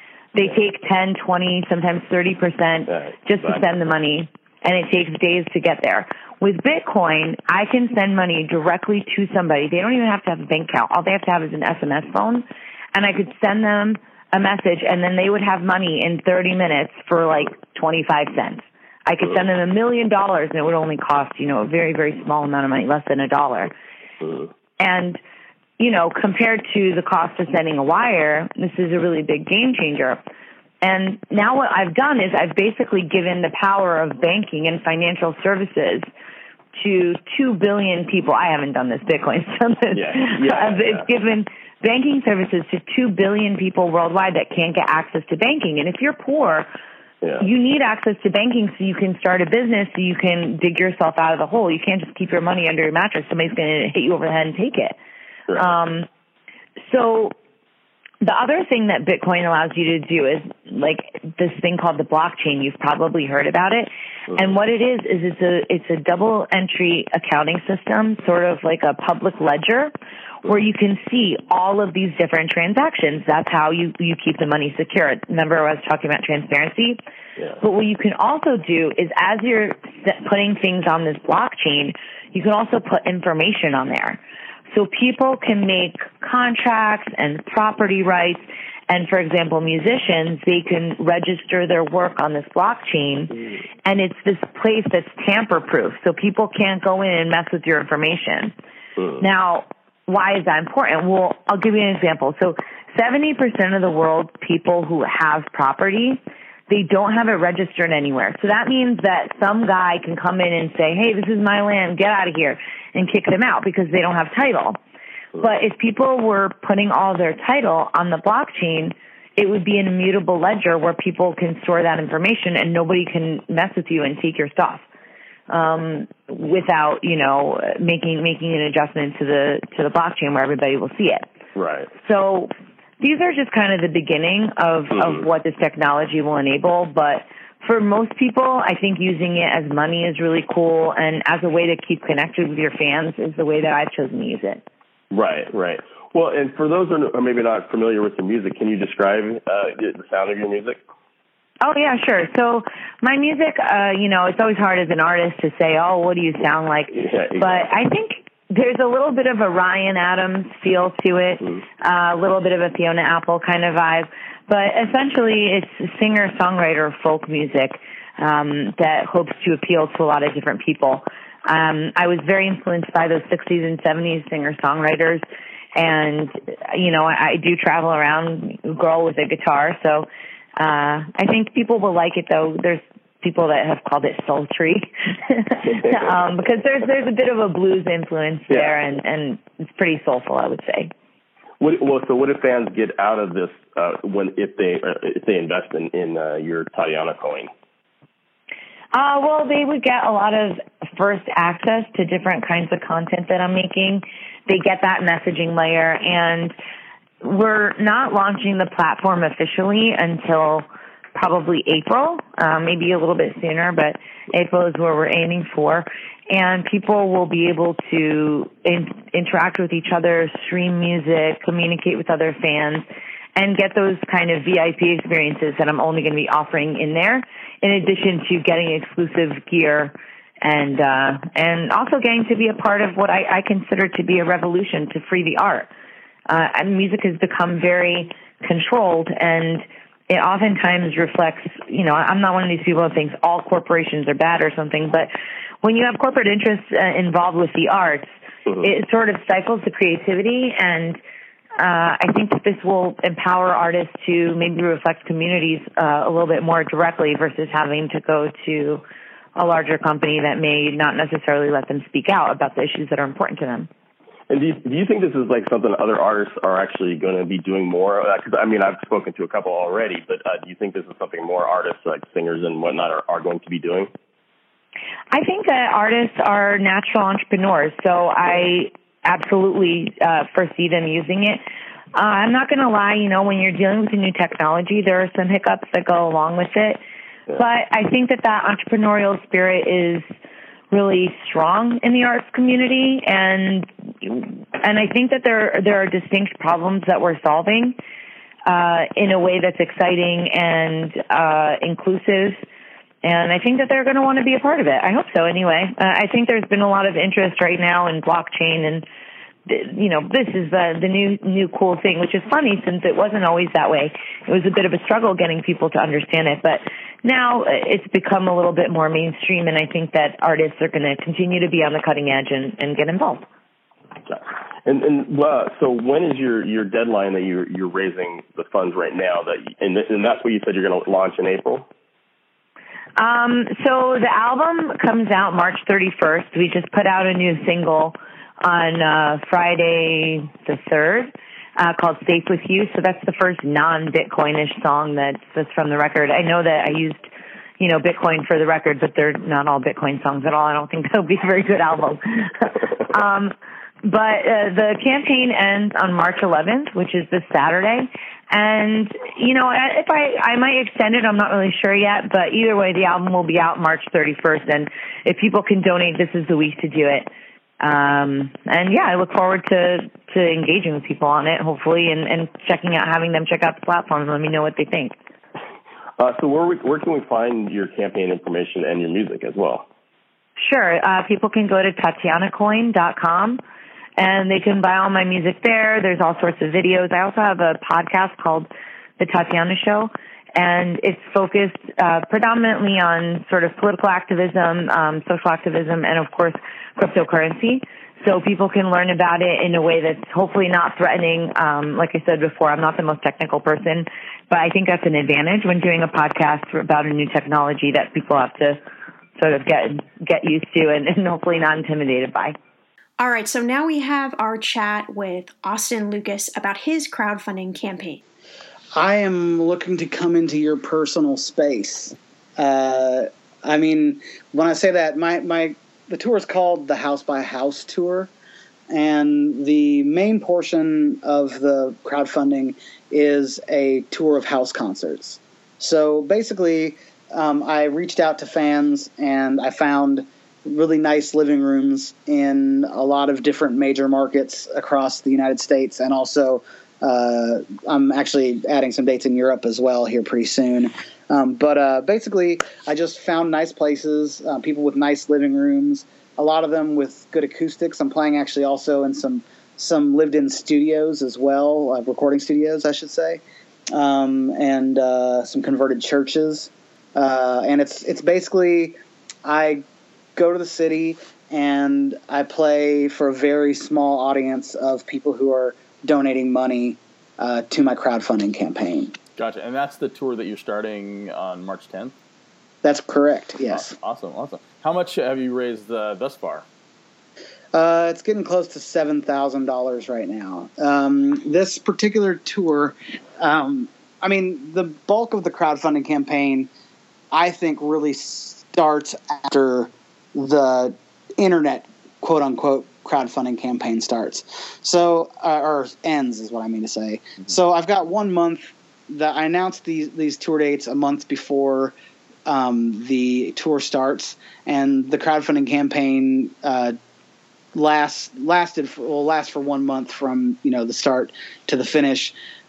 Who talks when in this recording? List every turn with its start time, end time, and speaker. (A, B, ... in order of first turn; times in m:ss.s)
0:00.4-0:23.7 A
0:02.9-0:03.6 B
0:24.8-0:25.2 A
0:25.8-0:30.2 A
0:30.8-0:36.1 A
0:36.8-0:46.7 A
0:39.9-0:41.1 B
0:47.4-0:55.0 A
0:55.6-0:56.1 A
0:56.9-0:57.4 A
0:58.2-1:09.9 A
1:10.4-1:17.0 A
1:17.6-1:24.2 A
1:24.7-1:38.5 A
1:39.2-1:54.8 A
1:55.4-2:04.8 A
2:05.5-2:11.3 A
2:11.6-2:11.9 B
2:12.0-2:24.6 A
2:25.1-2:30.8 B
2:31.6-2:55.2 A
2:36.9-2:37.7 B
2:55.8-3:10.9 A
3:11.6-3:17.5 B
3:18.9-3:26.5 A
3:27.2-3:55.7 A
3:56.3-4:05.1 A
4:05.6-4:11.0 A
4:11.6-4:18.8 A
4:19.4-4:23.7 A
4:24.3-4:33.9 B
4:35.1-4:41.4 A
4:42.0-4:46.8 A
4:47.3-4:50.1 A
4:50.7-4:57.8 A
4:58.5-5:02.4 A
5:03.0-5:08.8 A
5:09.5-5:23.2 A
5:24.1-5:31.7 B
5:33.0-5:47.1 A
5:47.6-6:07.1 A
6:07.6-6:15.0 A
6:16.0-6:19.7 B
6:20.4-6:23.4 A
6:24.0-6:48.6 A
6:49.2-6:52.4 A
6:53.0-6:58.0 C
6:58.8-7:08.1 D
7:08.7-7:43.2 D
7:43.7-7:49.6 D
7:50.2-7:59.0 D
7:59.2-8:01.9 E
8:02.6-8:03.7 D
8:03.5-8:06.5 E
8:07.5-8:16.5 D
8:17.1-8:31.7 D
8:32.3-8:36.8 D
8:37.5-8:42.1 D